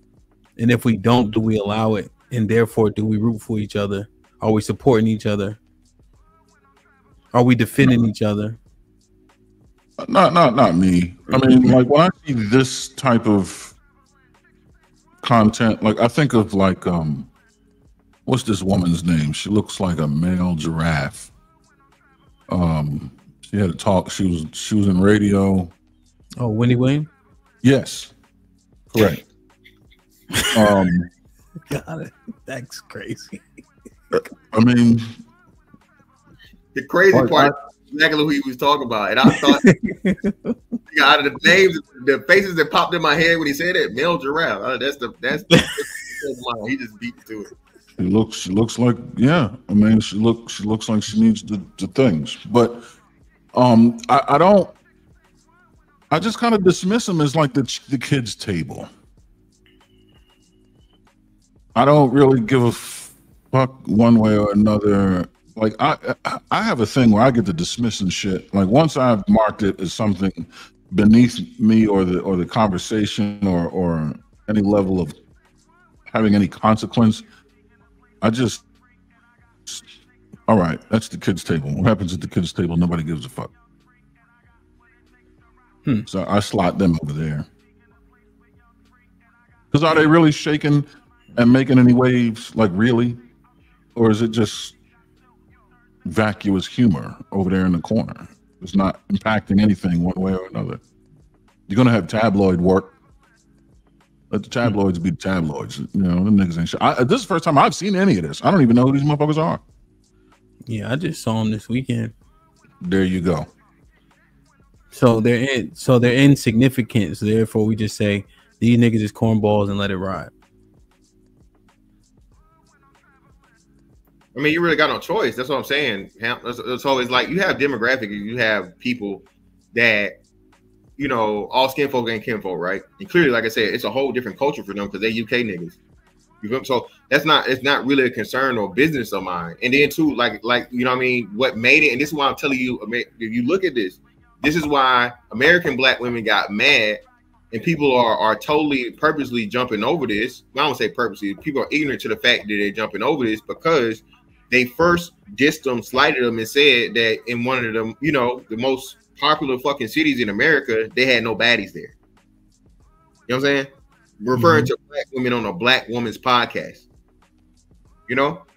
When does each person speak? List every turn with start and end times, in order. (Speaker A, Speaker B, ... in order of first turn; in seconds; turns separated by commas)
Speaker A: 0.6-5.6, Speaker A: 7.3-8.6, Speaker B: 10.0-13.8, Speaker B: 15.2-17.3, Speaker B: 18.3-21.3, Speaker B: 22.5-25.7, Speaker A: 26.4-27.1, Speaker B: 27.6-28.1, Speaker B: 28.9-29.2, Speaker A: 30.3-30.9, Speaker B: 30.5-31.1, Speaker A: 31.7-33.4, Speaker B: 34.1-35.2, Speaker C: 36.8-39.7, Speaker B: 37.1-37.5, Speaker A: 39.4-40.8, Speaker C: 40.9-47.5, Speaker B: 48.0-52.9, Speaker B: 53.5-54.7, Speaker B: 56.1-58.9, Speaker B: 61.8-75.2, Speaker B: 76.1-77.2, Speaker B: 78.2-78.6, Speaker B: 80.5-83.5, Speaker B: 86.1-87.5, Speaker B: 89.7-93.2, Speaker B: 94.0-94.8, Speaker B: 96.0-100.8, Speaker B: 101.7-102.9, Speaker B: 104.3-109.6, Speaker A: 110.7-112.1, Speaker B: 112.8-113.5, Speaker A: 114.9-120.3, Speaker C: 124.3-130.2, Speaker C: 131.0-135.8, Speaker C: 136.4-161.9, Speaker C: 163.3-163.7, Speaker C: 164.2-166.8, Speaker A: 164.3-164.7, Speaker C: 168.1-168.4